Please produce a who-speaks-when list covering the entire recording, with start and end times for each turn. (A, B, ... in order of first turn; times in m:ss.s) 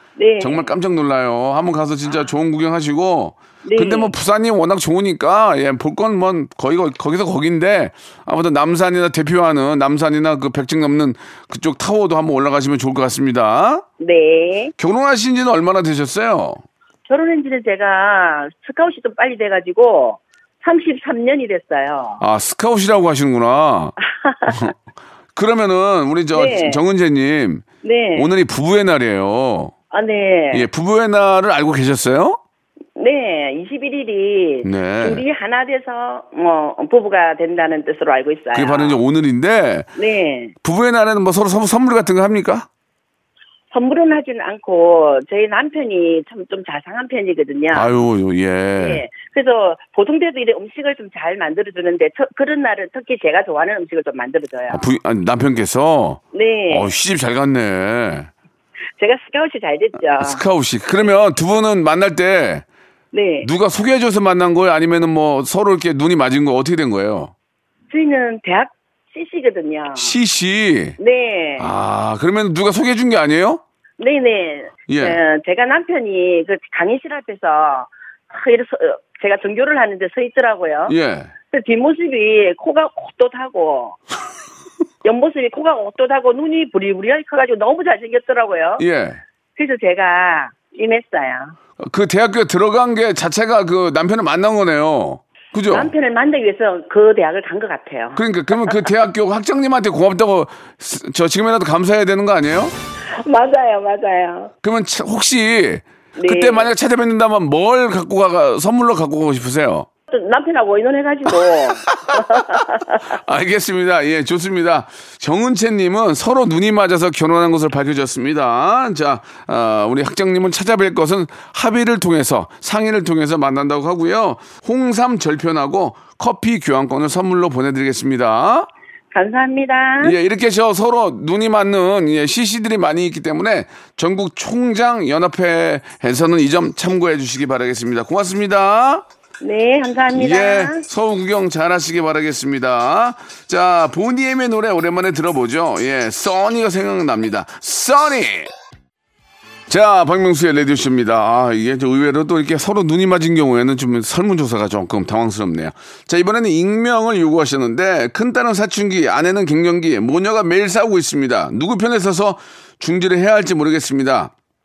0:00.2-0:00.7 A
0:00.4-0:13.8 B
0:02.1-0:02.3 A
0:03.6-0:04.1 A
0:14.0-0:14.7 A
0:14.8-0:16.6 B
0:17.1-0:22.2 A
0:22.2-0:24.0 B
0:24.0-0:24.7 A
0:24.5-0:24.7 B
0:25.4-0:29.7 B
0:26.3-0:26.8 A
0:27.8-0:28.3 A
0:29.9-0:30.7 A
0:30.5-0:32.4 B
0:33.0-0:39.0 A
0:34.6-0:35.2 B
0:38.5-0:39.9 B
0:40.0-0:40.5 A
0:40.6-0:42.7 B
0:43.7-0:47.9 A
0:47.7-0:49.0 B
0:48.8-0:54.8 A
0:54.7-0:58.3 B
0:56.3-0:56.9 A
0:59.0-1:00.4 A
1:00.1-1:02.6 B
1:03.1-1:03.5 A
1:03.4-1:07.3 B
1:07.9-1:10.1 A
1:10.0-1:11.0 B
1:11.0-1:11.7 A
1:11.6-1:13.6 B
1:14.0-1:21.0 A
1:14.9-1:15.2 B
1:20.9-1:21.3 B
1:21.5-1:24.0 A
1:25.0-1:28.8 A
1:28.8-1:29.2 B
1:29.6-1:31.6 A
1:31.8-1:35.9 B
1:35.7-1:38.8 A
1:38.2-1:42.7 B
1:43.1-1:44.5 A
1:44.6-1:49.9 B
1:46.2-1:46.7 A
1:50.1-1:53.2 A
1:52.1-2:08.7 B
2:09.1-2:10.2 A
2:10.0-2:19.0 B
2:19.4-2:20.8 A
2:20.1-2:28.5 B
2:29.7-2:44.3 B